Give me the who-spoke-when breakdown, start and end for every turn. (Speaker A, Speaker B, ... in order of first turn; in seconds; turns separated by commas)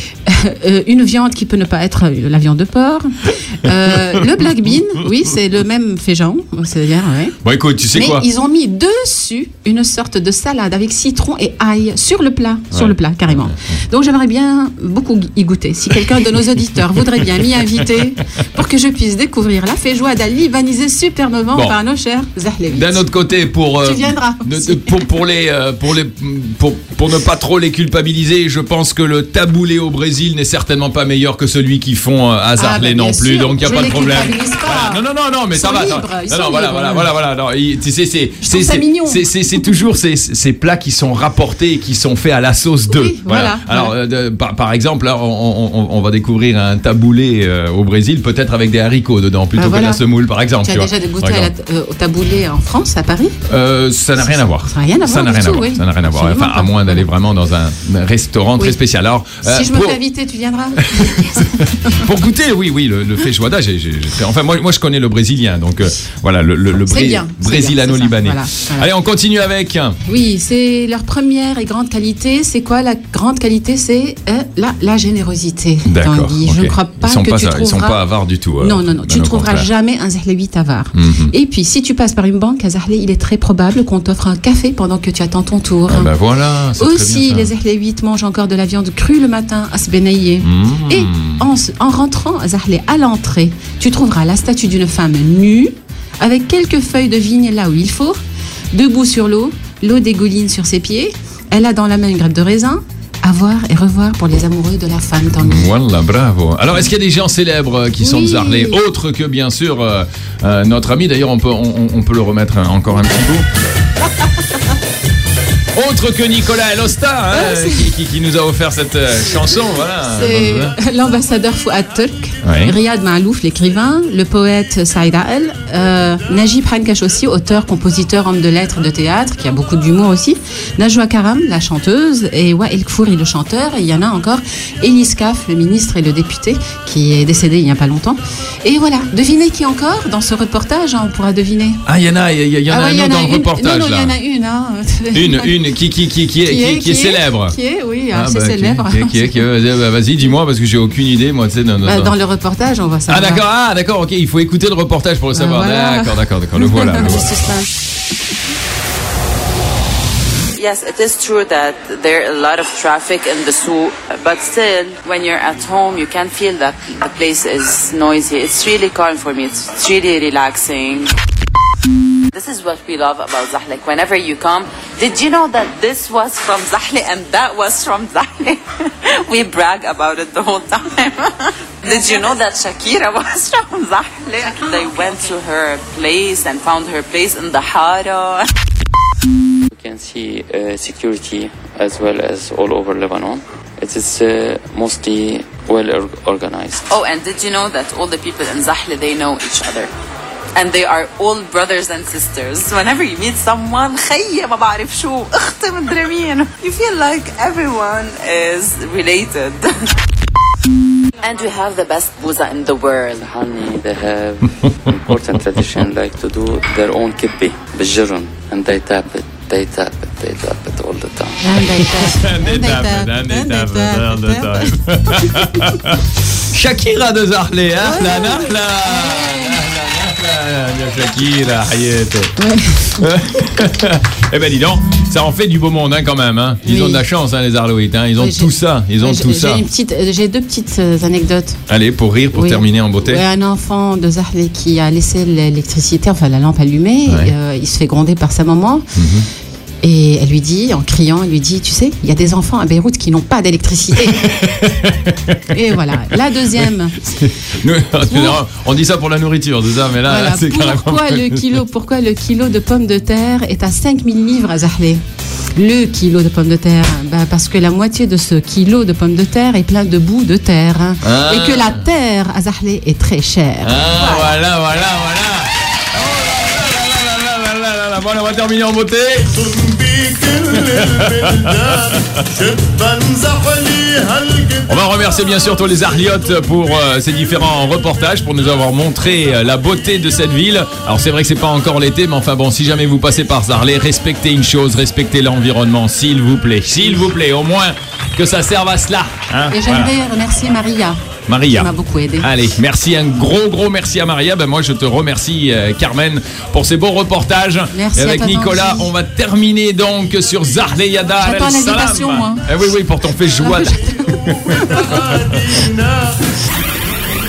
Speaker A: 0.3-7.4, Speaker B: 7.4-8.3, Speaker A: 7.9-23.0, Speaker B: 12.7-13.6, Speaker B: 17.0-18.0, Speaker B: 22.7-51.5, Speaker A: 23.8-25.0, Speaker A: 32.6-37.1, Speaker A: 38.4-39.7, Speaker A: 42.9-44.0, Speaker A: 49.5-50.0, Speaker A: 50.6-53.4, Speaker B: 53.5-60.0, Speaker A: 54.2-57.1, Speaker A: 59.4-62.1, Speaker B: 60.9-70.0, Speaker A: 66.8-68.9, Speaker A: 70.0-78.0, Speaker B: 75.9-79.7, Speaker A: 78.6-86.1, Speaker B: 80.9-81.3, Speaker B: 85.9-87.5, Speaker A: 86.8-98.2, Speaker B: 90.4-91.5, Speaker A: 98.7-105.7, Speaker B: 105.4-113.5, Speaker A: 108.0-108.8, Speaker B: 115.8-120.8, Speaker A: 117.3-117.9, Speaker A: 120.1-141.8, Speaker B: 122.4-122.8, Speaker B: 141.8-144.2, Speaker A: 142.7-145.6, Speaker B: 145.1-147.6, Speaker A: 146.4-149.4, Speaker B: 148.1-152.2, Speaker A: 151.8-153.4, Speaker B: 153.1-157.4, Speaker A: 155.3-157.7, Speaker C: 160.6-171.1, Speaker C: 172.3-188.5, Speaker D: 189.7-196.8, Speaker C: 196.9-199.9, Speaker C: 200.5-209.7, Speaker C: 211.2-213.2, Speaker D: 213.2-221.6, Speaker A: 221.4-225.7, Speaker B: 221.6-226.0, Speaker B: 226.5-232.3, Speaker A: 227.8-229.6, Speaker A: 232.4-233.0, Speaker B: 232.9-239.7, Speaker A: 236.6-237.0, Speaker A: 238.2-241.6, Speaker B: 241.7-243.2, Speaker A: 242.3-248.8, Speaker B: 247.1-247.3, Speaker B: 248.9-249.3, Speaker A: 249.8-254.3, Speaker B: 254.2-255.4, Speaker A: 255.5-257.0, Speaker B: 256.0-261.5, Speaker A: 258.1-258.4, Speaker A: 260.0-265.0, Speaker A: 265.6-274.4, Speaker B: 271.0-271.9, Speaker B: 273.6-279.6, Speaker E: 279.5-281.9, Speaker B: 280.5-282.2, Speaker E: 282.4-284.6, Speaker B: 284.7-299.9, Speaker A: 299.5-301.0, Speaker B: 301.3-315.6, Speaker A: 301.5-302.3, Speaker A: 307.7-308.9, Speaker A: 311.2-312.5, Speaker A: 313.4-315.0